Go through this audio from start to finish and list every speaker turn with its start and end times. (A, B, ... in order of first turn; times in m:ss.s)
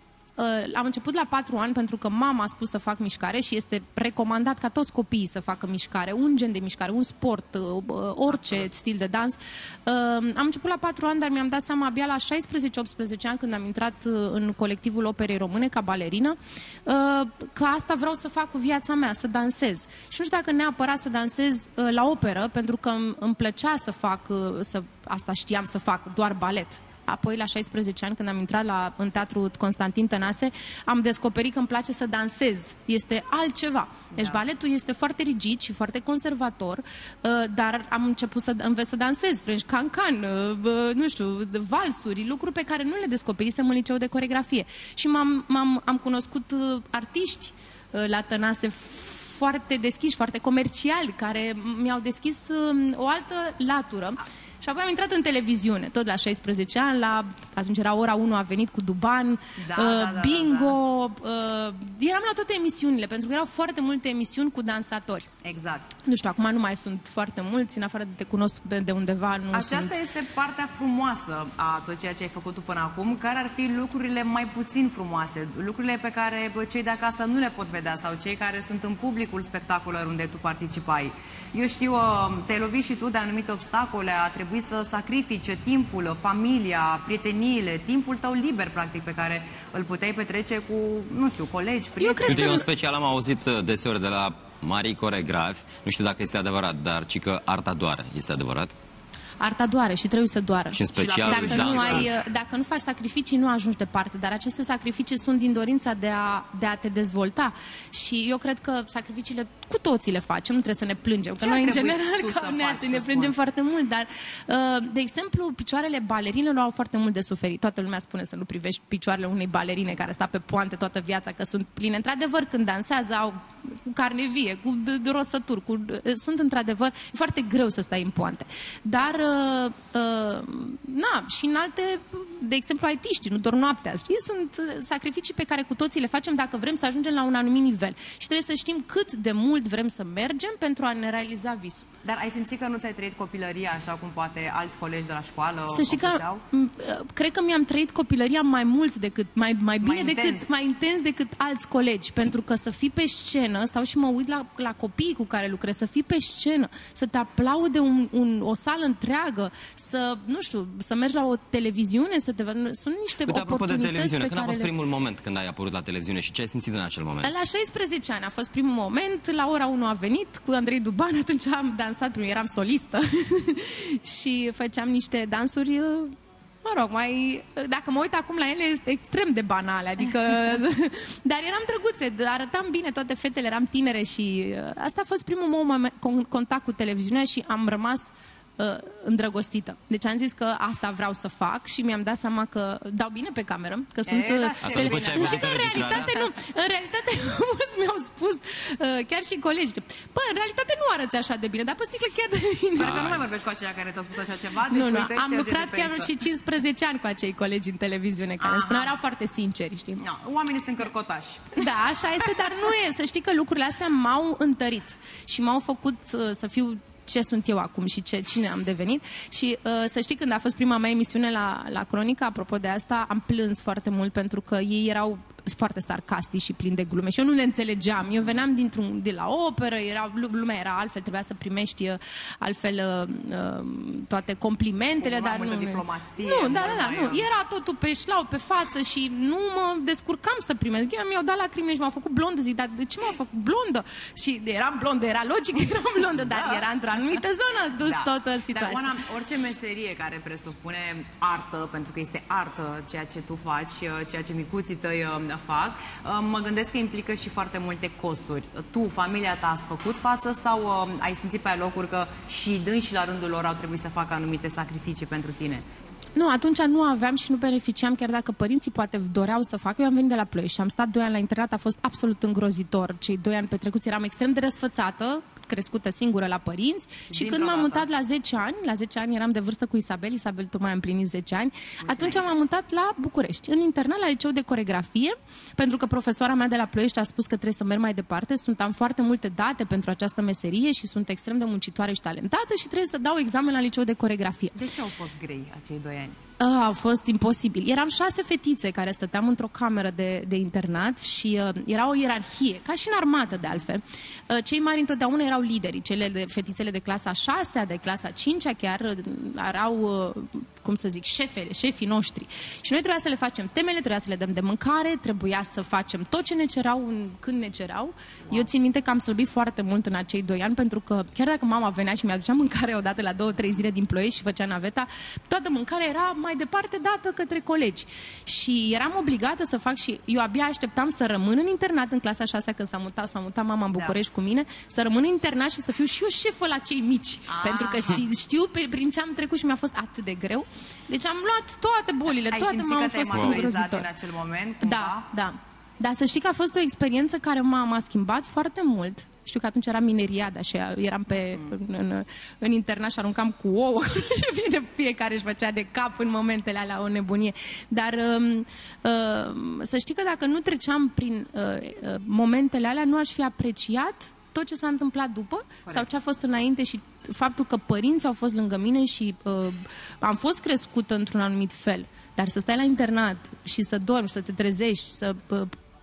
0:00.4-1:05.3 A
0:08.3-0:08.7 B
0:34.1-0:34.4 B
0:59.6-1:00.8 B
1:05.4-1:06.0 B
1:06.1-1:10.0 A
1:09.5-1:32.6 B
1:32.0-1:32.7 A
1:32.2-1:38.8 C
1:39.4-2:21.9 A
1:40.7-1:42.1 C
1:41.0-1:42.1 B
1:51.4-1:53.4 B
2:22.0-2:26.4 B
2:25.7-2:44.7 A
2:29.8-2:30.5 B
2:43.2-2:47.3 C
2:47.2-3:23.1 A
3:14.1-3:16.0 B
3:14.6-3:16.3 C
3:22.8-3:26.1 B
3:22.8-3:23.3 C
3:24.7-3:30.0 A
3:28.4-3:29.0 B
3:30.0-3:31.7 B
3:31.6-4:09.0 A
3:55.0-3:57.3 B
4:06.1-4:07.2 B
4:07.8-4:25.7 B
4:26.2-4:54.6 A
4:37.1-4:37.9 B
4:41.8-4:42.3 B
4:54.5-4:56.2 B
4:56.4-5:43.9 A
5:03.3-5:03.6 B
5:37.3-5:38.1 B
5:42.1-5:45.1 B
5:44.6-6:15.5 A
5:51.1-5:51.5 B